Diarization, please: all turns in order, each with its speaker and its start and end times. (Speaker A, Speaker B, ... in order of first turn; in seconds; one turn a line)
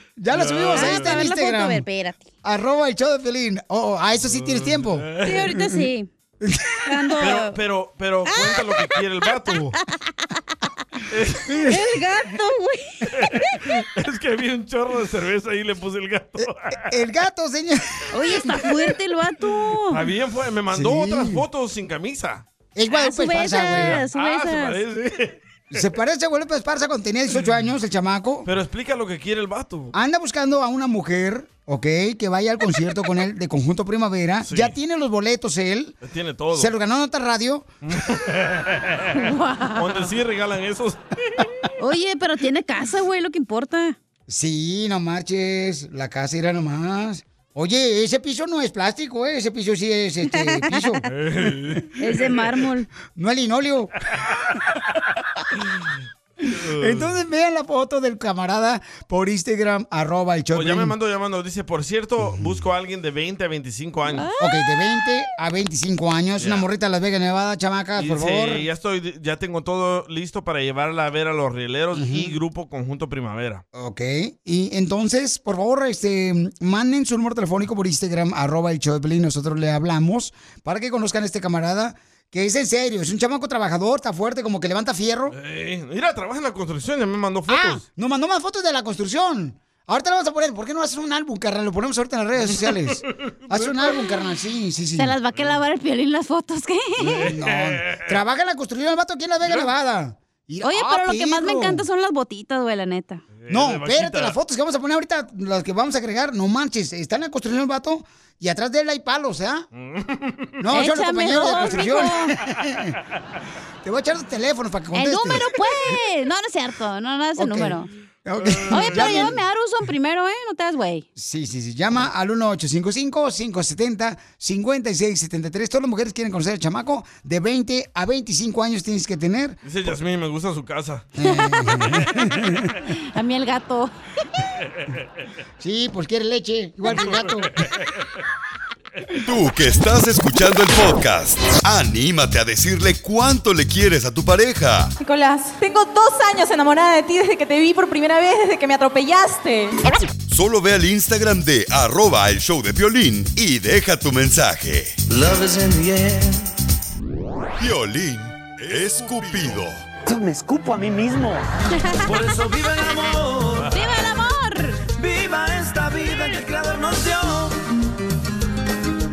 Speaker A: 0.2-1.9
Speaker B: 0.3-1.2
Speaker C: 0.7-2.3
Speaker A: 2.4-5.8
Speaker B: 4.2-5.6
Speaker C: 5.2-6.1
Speaker A: 6.4-7.1
Speaker C: 6.9-7.6
Speaker B: 7.2-9.8
Speaker C: 8.3-9.0
Speaker C: 10.0-10.3
Speaker B: 11.1-11.7
Speaker A: 11.5-11.8
Speaker C: 11.7-13.6
Speaker B: 13.2-16.9
Speaker A: 16.8-18.8
Speaker C: 18.1-20.0
Speaker B: 19.9-22.4
Speaker A: 20.7-21.4
Speaker A: 22.8-24.0
Speaker C: 22.9-24.8
Speaker B: 23.6-25.4
Speaker A: 25.7-28.5
Speaker B: 28.4-29.9
Speaker A: 29.9-36.0
Speaker B: 34.5-34.8
Speaker B: 36.0-36.7
Speaker A: 36.5-37.7
Speaker B: 37.9-39.2
Speaker C: 39.1-40.1
Speaker B: 39.8-41.4
Speaker C: 41.8-44.0
Speaker A: 44.3-51.8
Speaker C: 50.3-50.9
Speaker B: 51.1-51.9
Speaker C: 52.0-52.9
Speaker A: 53.2-53.9
Speaker B: 56.5-57.1
Speaker A: 56.5-60.9
Speaker B: 60.5-64.3
Speaker A: 62.2-62.6
Speaker C: 64.2-64.7
Speaker A: 64.4-68.7
Speaker B: 66.4-66.7
Speaker B: 68.0-73.6
Speaker A: 71.9-72.3
Speaker A: 73.7-85.4
Speaker B: 85.3-87.8
Speaker A: 87.5-95.1
Speaker C: 95.0-97.3
Speaker A: 97.0-101.8
Speaker B: 97.1-98.2
Speaker B: 99.5-99.7
Speaker C: 100.6-103.2
Speaker B: 103.4-104.4
Speaker A: 103.5-109.7
Speaker B: 109.7-110.5
Speaker A: 110.6-113.0
Speaker C: 110.7-112.3
Speaker A: 113.8-116.0
Speaker C: 114.9-117.9
Speaker A: 117.4-119.4
Speaker B: 118.4-119.3
Speaker C: 118.7-121.0
Speaker A: 121.2-129.6
Speaker B: 129.6-131.1
Speaker A: 131.2-132.8
Speaker C: 131.2-132.1
Speaker C: 132.9-133.9
Speaker A: 135.6-137.6
Speaker B: 137.0-137.7
Speaker D: 139.2-144.9
Speaker E: 145.0-149.7
Speaker D: 150.3-155.0
Speaker F: 155.1-156.5
Speaker D: 157.6-159.8
Speaker F: 160.1-161.4
Speaker F: 162.0-163.8
Speaker C: 163.7-164.8
Speaker F: 164.9-167.6